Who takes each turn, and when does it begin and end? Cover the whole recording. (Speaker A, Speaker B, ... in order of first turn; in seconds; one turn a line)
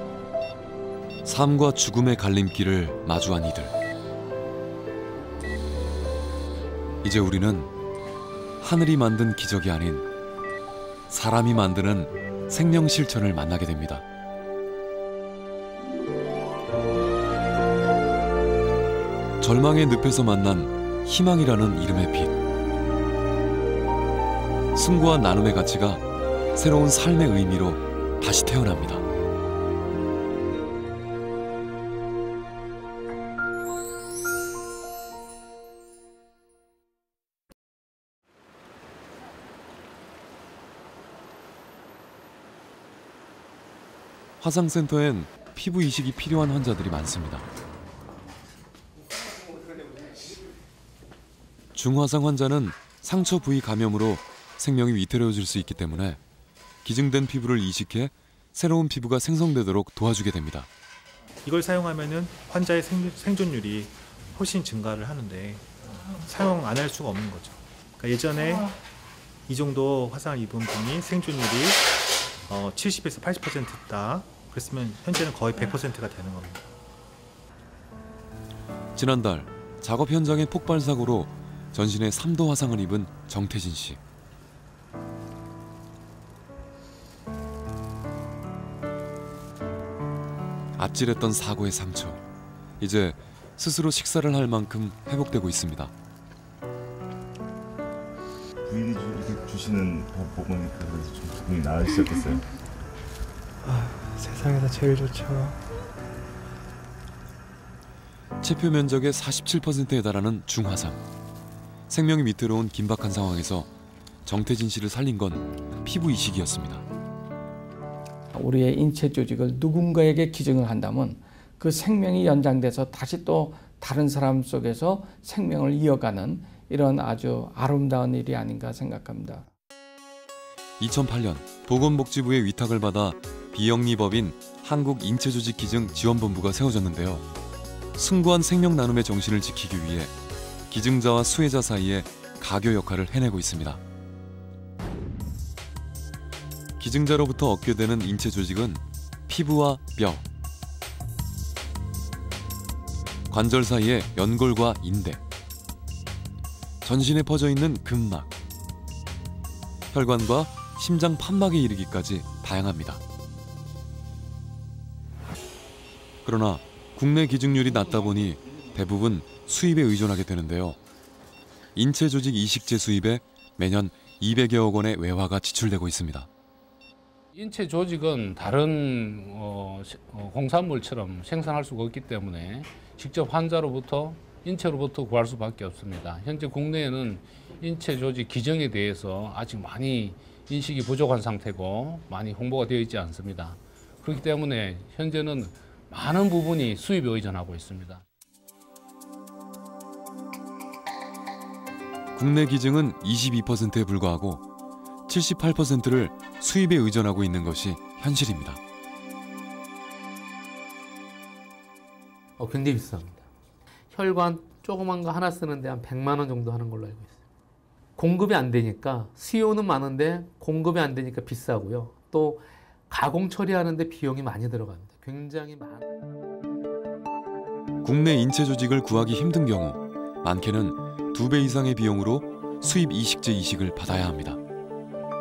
Speaker A: 1.2-3.7
Speaker A: 7.0-7.7
Speaker A: 8.6-10.1
Speaker A: 11.1-14.0
Speaker A: 19.4-22.4
Speaker A: 24.8-26.0
Speaker A: 26.5-29.0
Speaker A: 44.4-47.5
Speaker A: 51.7-56.2
Speaker A: 56.8-60.7
Speaker B: 61.5-65.6
Speaker B: 66.2-68.7
Speaker B: 69.5-71.8
Speaker B: 72.5-76.6
Speaker A: 78.9-84.0
Speaker A: 90.8-92.2
Speaker A: 92.8-95.9
Speaker C: 98.6-102.4
Speaker D: 103.6-105.6
Speaker A: 108.4-111.0
Speaker A: 111.9-113.7
Speaker A: 114.2-116.8
Speaker E: 118.3-129.4
Speaker A: 130.8-137.2
Speaker A: 137.9-140.1
Speaker A: 140.7-143.8
Speaker A: 146.8-150.2
Speaker A: 153.3-155.2
Speaker A: 156.8-158.3
Speaker A: 159.9-163.0
Speaker A: 166.2-170.8
Speaker A: 171.7-176.3
Speaker F: 177.3-198.0
Speaker A: 202.1-204.4
Speaker A: 205.1-208.6
Speaker G: 212.4-213.2
Speaker G: 213.9-217.2
Speaker G: 218.0-225.8
Speaker A: 227.8-234.4